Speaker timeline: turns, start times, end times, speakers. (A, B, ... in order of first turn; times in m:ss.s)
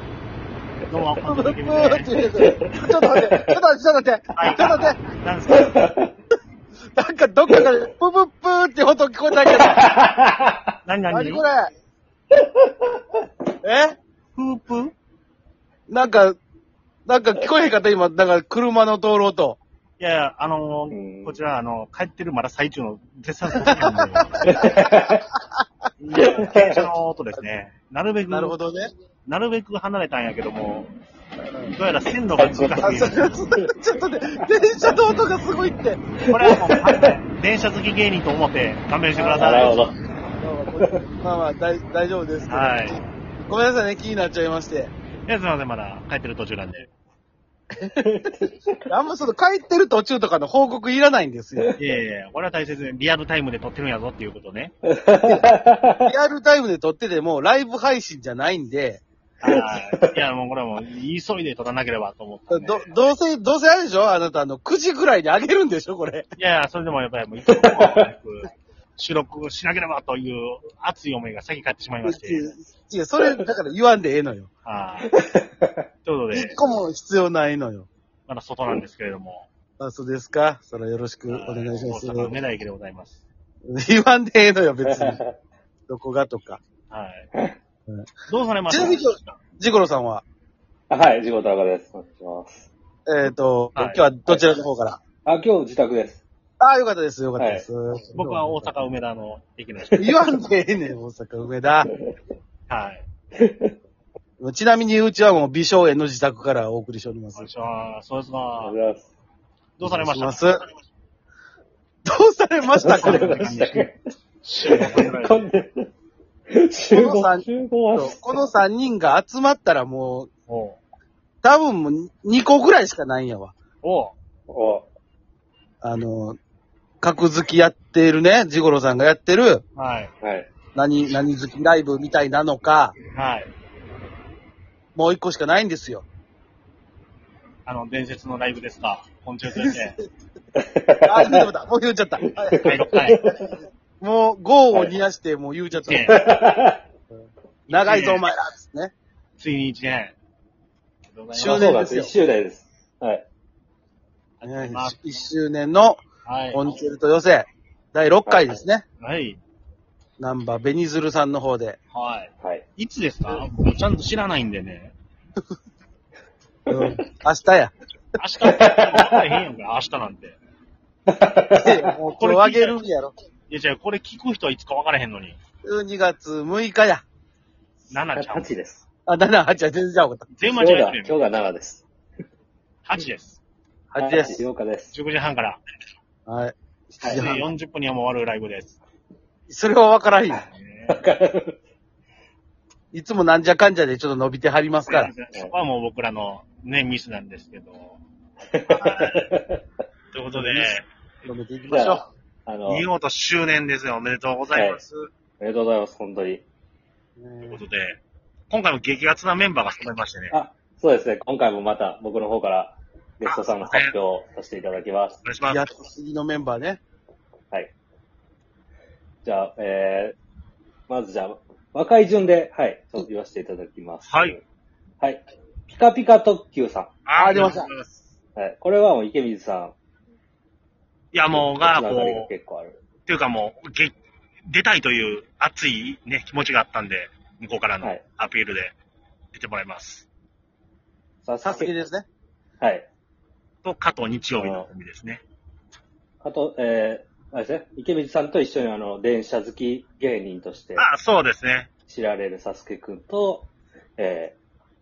0:00.9-0:02.2 A
0:01.2-0:05.0 B
0:02.4-0:03.5 C
0:04.3-0:05.8 A
0:05.5-0:06.1 C
0:06.9-0:09.9 B
0:09.5-0:10.6 C
0:10.8-0:11.4 A
0:11.1-0:11.7 B
0:12.4-0:12.7 C
0:13.6-0:14.0 B
0:14.4-0:14.9 A
0:15.9-0:16.4 B
0:17.1-0:19.6 B
0:20.0-0:24.4 A
0:20.9-0:21.4 C
0:23.7-0:24.8 B
0:24.4-0:25.2 C
0:26.0-0:28.6 A
0:26.1-0:26.8 C
0:28.3-0:28.9 B
0:29.2-0:30.9 A
0:31.4-0:31.7 B
0:31.7-0:33.3 A
0:32.4-0:32.9 C
0:32.8-0:36.0 B
0:36.3-0:39.9 A
0:36.3-0:37.1 C
0:39.1-0:39.4 B
0:39.3-0:40.0 C
0:40.4-0:44.9 B
0:42.5-0:43.0 A
0:45.2-0:46.9 A
0:48.0-0:48.9 C
0:48.9-0:51.7 B
0:51.8-0:54.7 A
0:54.8-0:56.1 C
0:56.0-0:59.0 B
0:59.4-1:02.9 A
0:59.5-1:00.1 C
1:02.5-1:06.3 B
1:06.4-1:12.5 A
1:07.5-1:08.0 C
1:12.0-1:14.5 B
1:14.6-1:15.1 A
1:15.1-1:15.8 C
1:16.0-1:16.6 A
1:16.3-1:17.9 B
1:18.3-1:19.5 A
1:19.8-1:22.4 B
1:21.3-1:23.2 A
1:23.7-1:25.2 B
1:24.8-1:25.4 C
1:25.9-1:26.6 B
1:26.9-1:27.3 A
1:28.3-1:29.4 A
1:28.7-1:30.2 B
1:30.9-1:32.7 C
1:33.1-1:35.0 B
1:33.8-1:34.0 A
1:35.2-1:36.2 C
1:36.6-1:38.7 B
1:37.4-1:37.7 C
1:38.1-1:40.3 A
1:40.0-1:41.9 B
1:42.7-1:43.0 A
1:43.4-1:43.7 C
1:44.4-1:47.5 B
1:47.3-1:48.8 A
1:48.6-1:49.1 C
1:49.8-1:50.7 A
1:49.8-1:50.6 B
1:52.0-1:53.5 B
1:52.7-1:54.0 C
1:53.0-1:53.9 A
1:54.4-1:55.5 A
1:54.6-1:55.9 C
1:56.5-1:58.4 C
1:56.9-2:00.3 B
2:00.5-2:00.8 A
2:01.4-2:03.5 B
2:03.8-2:04.1 A
2:04.5-2:04.9 C
2:05.8-2:06.4 B
2:07.0-2:09.6 B
2:09.8-2:10.1 A
2:10.2-2:10.5 C
2:10.7-2:13.0 B
2:13.1-2:13.5 A
2:14.9-2:16.0 B
2:17.6-2:20.0 A
2:19.6-2:19.8 B
2:20.6-2:21.4 C
2:21.0-2:22.7 B
2:22.2-2:23.5 C
2:22.6-2:23.2 A
2:24.0-2:26.1 B
2:25.9-2:26.2 A
2:26.1-2:26.8 C
2:27.7-2:28.9 B
2:27.8-2:28.2 A
2:29.4-2:30.2 A
2:31.1-2:31.8 A
2:31.3-2:32.1 B
2:31.4-2:33.2 C
2:34.4-2:35.2 A
2:34.4-2:38.8 B
2:36.2-2:36.8 A
2:38.3-2:38.6 C
2:39.0-2:39.4 A
2:40.2-2:41.8 B
2:41.9-2:44.9 A
2:42.4-2:42.6 C
2:46.7-2:47.7 B
2:48.2-2:50.4 A
2:48.4-2:49.2 C
2:51.1-2:51.9 C
2:51.6-2:53.1 B
2:52.1-2:52.8 A
2:53.5-2:55.4 A
2:55.6-2:57.0 B
2:57.9-2:58.5 A
2:58.2-2:58.8 C
2:59.1-3:00.2 B
3:00.3-3:01.2 A
3:00.5-3:01.8 C
3:02.8-3:03.4 A
3:03.9-3:04.4 B
3:04.0-3:04.9 C
3:04.9-3:05.6 A
3:06.3-3:07.5 B
3:07.0-3:07.3 C
3:07.0-3:08.8 A
3:09.5-3:10.4 B
3:10.3-3:11.6 C
3:10.5-3:11.0 A
3:12.9-3:15.1 B
3:14.8-3:18.0 A
3:18.5-3:19.6 C
3:18.7-3:19.3 A
3:20.1-3:20.9 A
3:20.3-3:22.1 B
3:21.7-3:22.9 C
3:22.7-3:25.1 A
3:24.5-3:24.8 C
3:25.4-3:26.4 C
3:27.2-3:27.6 B
3:27.5-3:30.4 A
3:30.3-3:35.2 C
3:33.2-3:33.9 A
3:35.2-3:35.7 A
3:35.4-3:36.8 B
3:39.2-3:40.2 C
3:40.9-3:44.4 C
3:44.0-3:44.4 A
3:45.0-3:46.9 C
3:47.0-3:48.0 A
3:47.1-3:47.7 B
3:48.4-3:49.7 C
3:51.1-3:52.3 A
3:51.3-3:52.8 C
3:53.0-3:53.9 A
3:54.5-3:58.7 A
3:59.3-4:00.1 A
4:01.2-4:01.7 C
4:01.4-4:02.1 B
4:02.6-4:02.9 C
4:03.6-4:05.2 A
4:04.4-4:04.7 C
4:06.2-4:10.9 C
4:10.8-4:11.7 A
4:11.9-4:14.4 C